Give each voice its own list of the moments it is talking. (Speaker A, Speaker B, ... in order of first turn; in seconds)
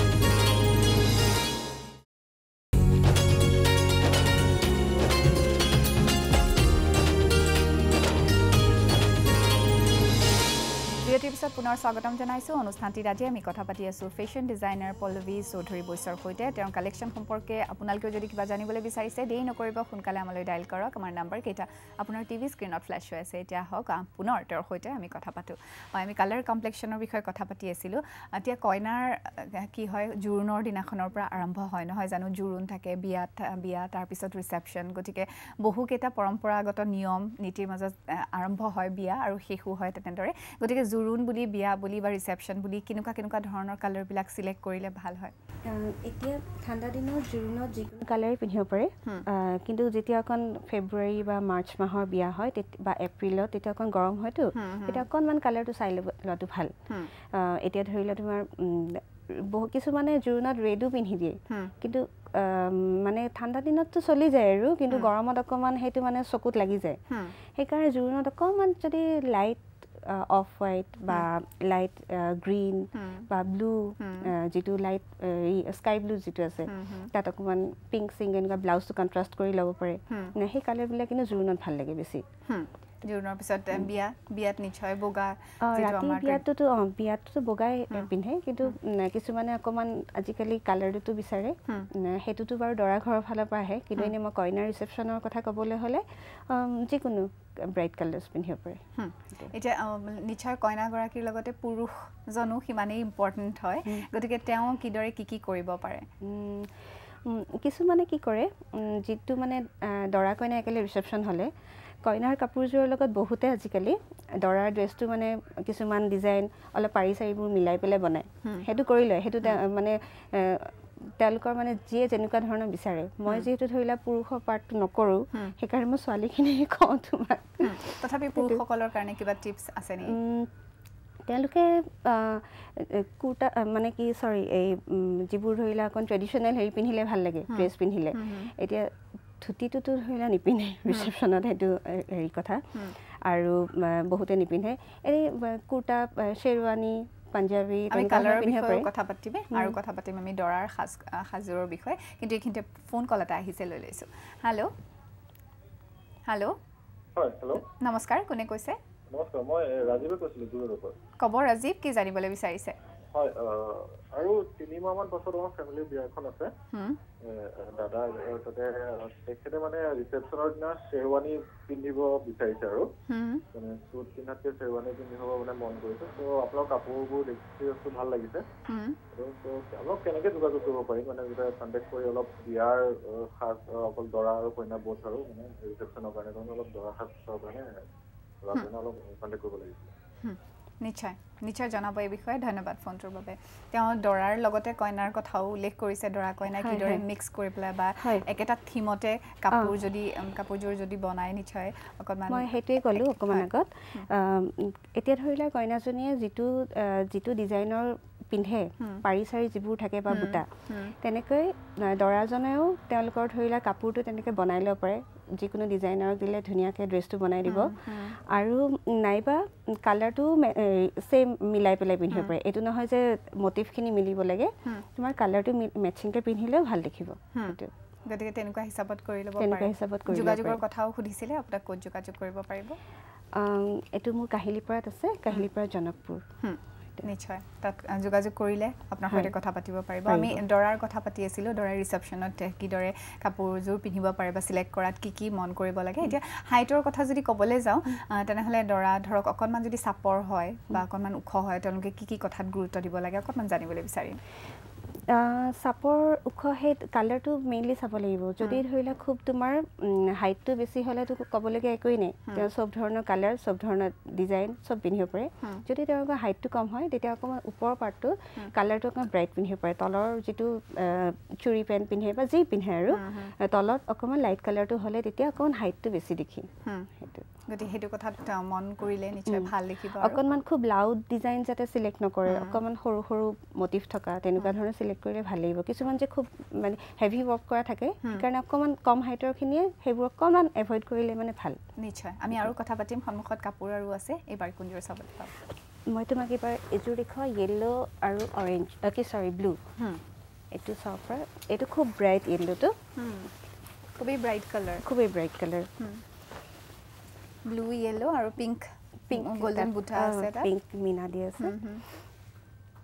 Speaker A: 11.0-45.3, 54.5-55.0, 67.1-67.3, 72.9-73.3, 74.0-74.3, 76.7-77.1, 80.1-80.3, 82.5-86.4, 99.0-106.1, 127.6-130.2, 137.5-138.5, 147.9-154.7, 156.3-156.6, 157.6-158.8, 161.2-162.8, 166.7-167.0, 173.1-173.4, 178.7-179.0, 190.2-204.1, 210.1-210.9, 217.4-218.2, 227.3-232.8, 236.4-254.2, 272.9-273.3, 277.5-280.2, 282.3-282.6, 291.8-295.3, 303.0-303.3, 304.0-304.8, 307.4-310.5, 311.4-311.8
Speaker B: 45.6-82.2, 85.6-99.5, 106.2-111.5, 112.0-128.6, 130.0-130.5, 131.2-148.9, 196.5-197.0, 198.0-198.2, 202.3-210.5, 211.0-227.7, 229.4-230.6, 233.3-236.2, 240.1-240.4, 255.1-277.2, 279.3-291.6, 295.9-299.6, 300.5-302.8, 304.8-305.7, 309.1-311.6
Speaker C: 157.2-157.6, 159.1-160.9, 163.1-166.5, 167.2-172.9, 173.5-178.4, 179.1-187.8, 188.4-189.9